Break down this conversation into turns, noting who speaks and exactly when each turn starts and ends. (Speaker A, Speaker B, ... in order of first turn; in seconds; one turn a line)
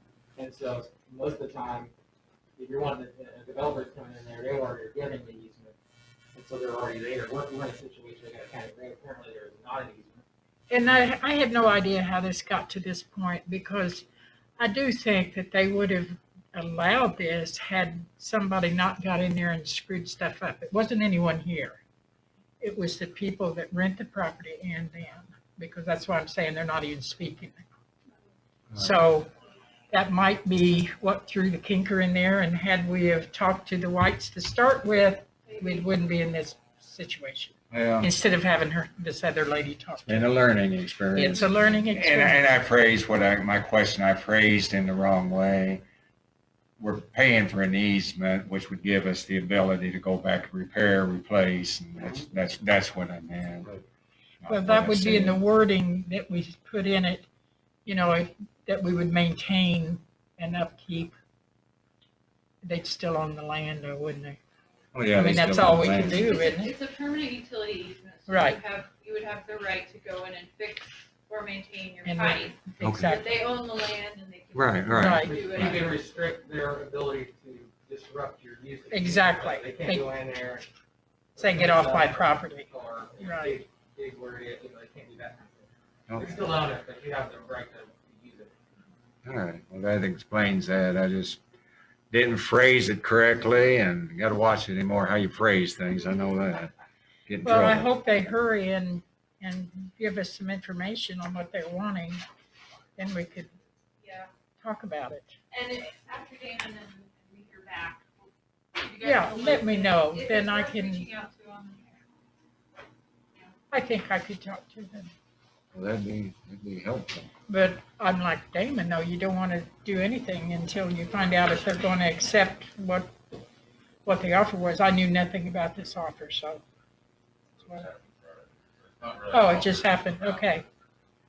Speaker A: 0.3-1.9
Speaker A: 2.6-5.7
Speaker A: 6.3-10.2
Speaker B: 10.7-14.0
Speaker B: 14.6-21.8
Speaker B: 22.6-27.6
Speaker C: 28.7-29.0
Speaker B: 28.7-29.3
Speaker B: 29.9-40.3
Speaker D: 35.5-35.8
Speaker C: 37.7-38.1
Speaker C: 40.0-45.8
Speaker B: 41.2-42.4
Speaker C: 46.8-53.7
Speaker C: 54.4-55.4
Speaker B: 54.5-57.2
Speaker B: 57.9-61.1
Speaker B: 62.6-64.4
Speaker C: 64.9-66.3
Speaker B: 65.1-66.8
Speaker D: 66.2-75.8
Speaker B: 68.3-68.6
Speaker B: 72.0-73.4
Speaker C: 72.8-73.2
Speaker C: 74.5-75.9
Speaker B: 74.9-75.4
Speaker A: 75.1-80.7
Speaker B: 78.9-80.0
Speaker A: 81.3-88.6
Speaker B: 81.4-82.7
Speaker B: 83.2-83.6
Speaker C: 86.1-86.5
Speaker C: 89.2-91.4
Speaker C: 92.1-96.7
Speaker C: 97.3-97.9
Speaker B: 97.4-102.2
Speaker B: 103.0-103.5
Speaker D: 104.0-104.3
Speaker B: 104.6-105.3
Speaker D: 105.5-112.0
Speaker B: 109.0-111.1
Speaker B: 113.7-115.1
Speaker C: 115.7-117.3
Speaker B: 117.5-123.1
Speaker B: 124.0-126.6
Speaker B: 127.6-127.9
Speaker B: 129.3-130.7